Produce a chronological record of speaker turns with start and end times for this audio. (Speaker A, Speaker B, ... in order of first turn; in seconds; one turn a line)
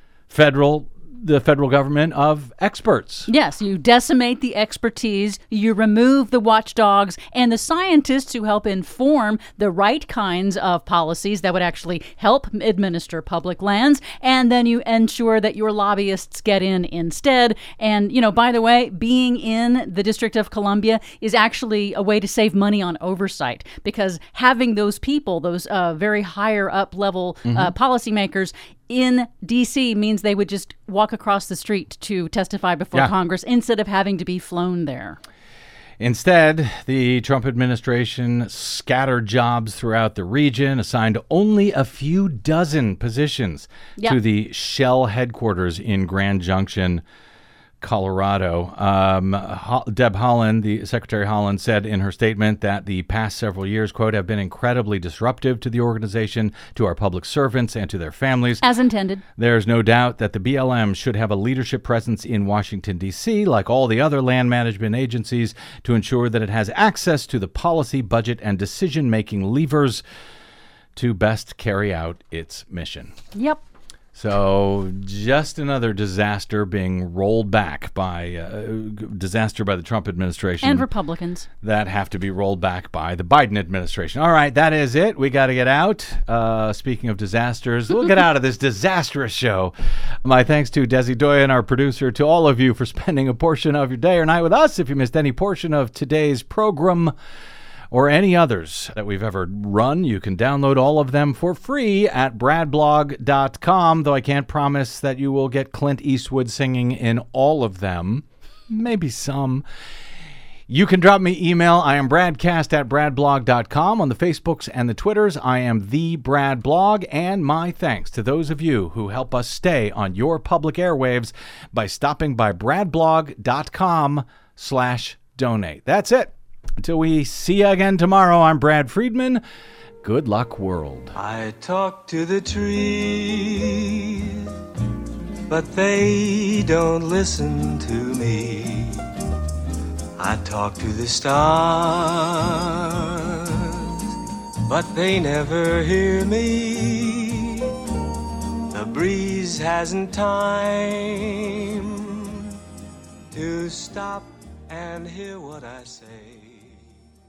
Speaker A: 0.3-3.3
Speaker B: 3.3-35.2
Speaker A: 27.5-27.7
Speaker A: 36.0-47.0
Speaker A: 47.8-58.6
Speaker B: 58.6-59.2
Speaker A: 59.4-70.0
Speaker A: 71.0-73.1
Speaker B: 73.3-73.6
Speaker A: 74.2-80.9
Speaker B: 80.6-81.5
Speaker A: 81.6-97.1
Speaker A: 97.9-109.6
Speaker A: 110.7-129.4
Speaker A: 130.0-131.2
Speaker C: 131.2-134.5
Speaker C: 135.5-139.0
Speaker C: 140.2-143.8
Speaker C: 144.7-147.7
Speaker C: 148.7-152.3
Speaker C: 153.3-156.8